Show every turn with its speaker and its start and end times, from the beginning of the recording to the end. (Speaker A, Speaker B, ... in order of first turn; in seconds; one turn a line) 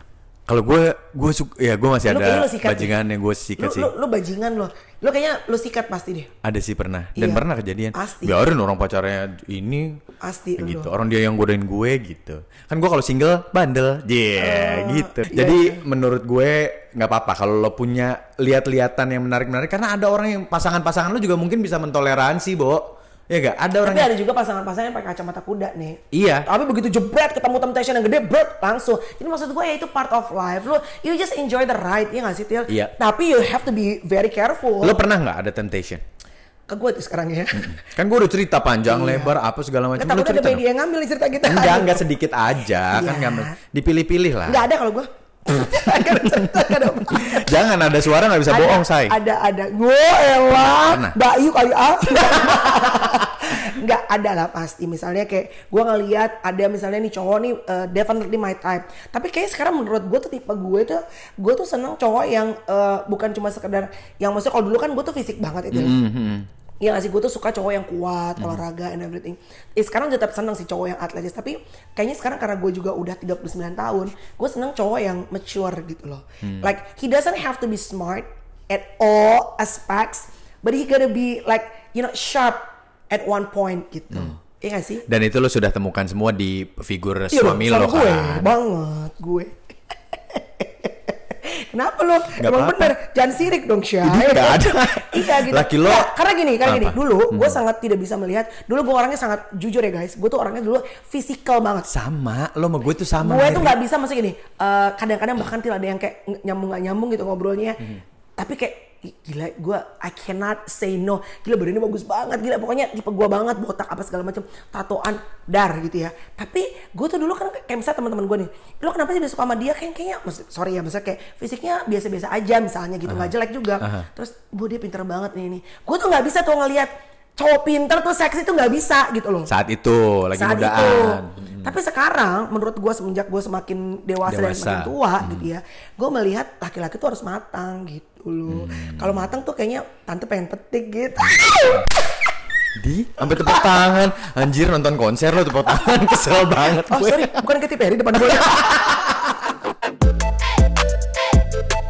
Speaker A: 0.5-3.9
Speaker B: 2.1-2.9
Speaker B: 3.6-6.3
Speaker A: 6.4-10.0
Speaker B: 7.2-8.4
Speaker B: 10.2-10.9
Speaker A: 10.6-24.1
Speaker B: 14.4-15.8
Speaker B: 23.8-35.0
Speaker A: 26.1-26.5
Speaker A: 32.7-32.9
Speaker A: 34.8-36.0
Speaker B: 36.7-37.8
Speaker A: 37.5-40.6
Speaker B: 38.9-39.4
Speaker B: 40.0-42.0
Speaker A: 41.4-44.6
Speaker B: 42.9-43.6
Speaker B: 44.5-47.6
Speaker A: 45.6-49.2
Speaker B: 48.5-66.0
Speaker A: 50.5-51.2
Speaker A: 65.7-66.5
Speaker B: 66.8-85.0
Speaker A: 68.4-68.6
Speaker A: 76.4-76.7
Speaker A: 85.1-88.5
Speaker B: 87.3-89.5
Speaker B: 90.3-101.9
Speaker A: 92.4-93.0
Speaker A: 94.0-96.1
Speaker A: 96.6-97.6
Speaker A: 101.9-103.8
Speaker B: 103.2-129.5
Speaker A: 123.1-124.1
Speaker A: 129.5-131.8
Speaker B: 130.4-141.9
Speaker A: 134.2-135.5
Speaker A: 138.5-139.3
Speaker A: 141.4-141.8
Speaker A: 142.8-147.4
Speaker B: 143.2-143.6
Speaker B: 146.8-148.9
Speaker A: 148.2-149.1